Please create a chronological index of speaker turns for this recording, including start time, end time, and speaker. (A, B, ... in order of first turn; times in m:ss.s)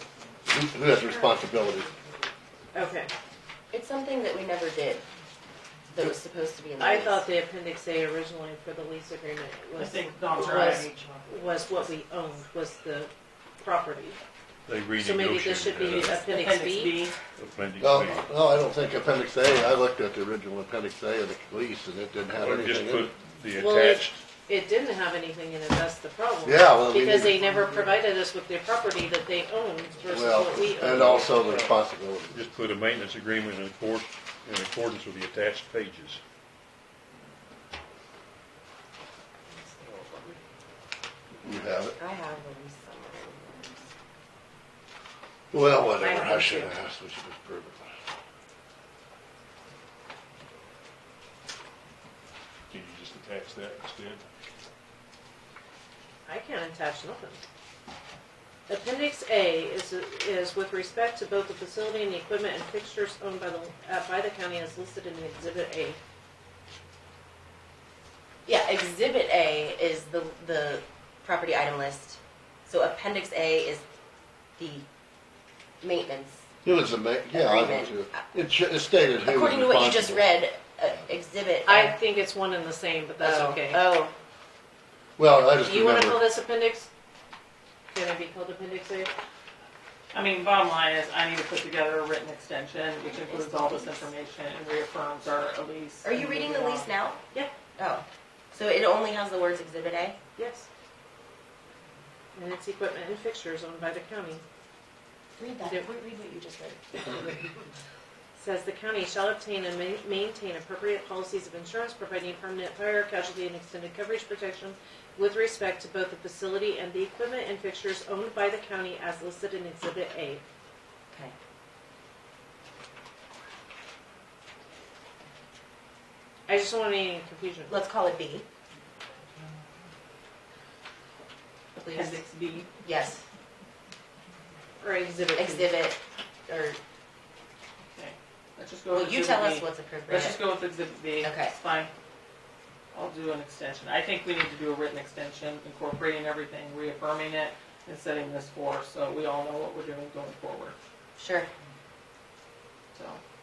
0:00.5-0:01.9 A
0:02.7-0:03.1 B
0:03.7-0:05.0 C
0:05.9-0:07.2 C
0:06.8-0:14.2 B
0:09.8-0:11.9 D
0:10.4-0:10.8 C
0:14.7-0:16.2 E
0:15.0-0:17.0 B
0:15.9-0:17.3 D
0:17.3-0:18.3 E
0:17.8-0:23.1 A
0:22.3-0:24.2 E
0:23.6-0:31.3 B
0:26.4-0:27.5 A
0:30.1-0:32.5 A
0:30.9-0:31.7 E
0:32.3-0:36.2 E
0:39.5-0:40.4 C
0:41.4-0:42.0 A
0:42.0-0:43.9 C
0:45.5-0:47.9 A
0:46.0-0:46.8 B
0:52.7-0:54.2 E
0:56.3-0:57.4 B
0:58.7-1:06.0 B
1:08.5-1:13.8 C
1:14.6-1:14.9 C
1:15.8-1:16.4 C
1:16.6-1:20.3 A
1:17.3-1:18.3 C
1:19.2-1:22.0 C
1:21.7-1:23.9 B
1:23.2-1:24.1 C
1:25.2-1:26.2 A
1:25.6-1:26.9 B
1:27.9-1:29.1 B
1:30.1-1:36.9 D
1:33.0-1:34.1 C
1:36.0-1:37.2 C
1:37.8-1:40.2 C
1:40.4-1:40.7 B
1:42.4-1:44.4 B
1:45.4-1:47.5 C
1:48.4-2:00.4 B
2:06.5-2:07.8 B
2:07.7-2:08.5 C
2:11.8-2:12.2 C
2:11.9-2:12.7 D
2:12.8-2:13.2 C
2:14.8-2:15.7 B
2:15.4-2:16.8 C
2:17.9-2:21.9 D
2:18.9-2:20.5 C
2:21.2-2:21.6 C
2:22.9-2:30.8 D
2:31.2-2:31.5 C
2:32.9-2:33.2 D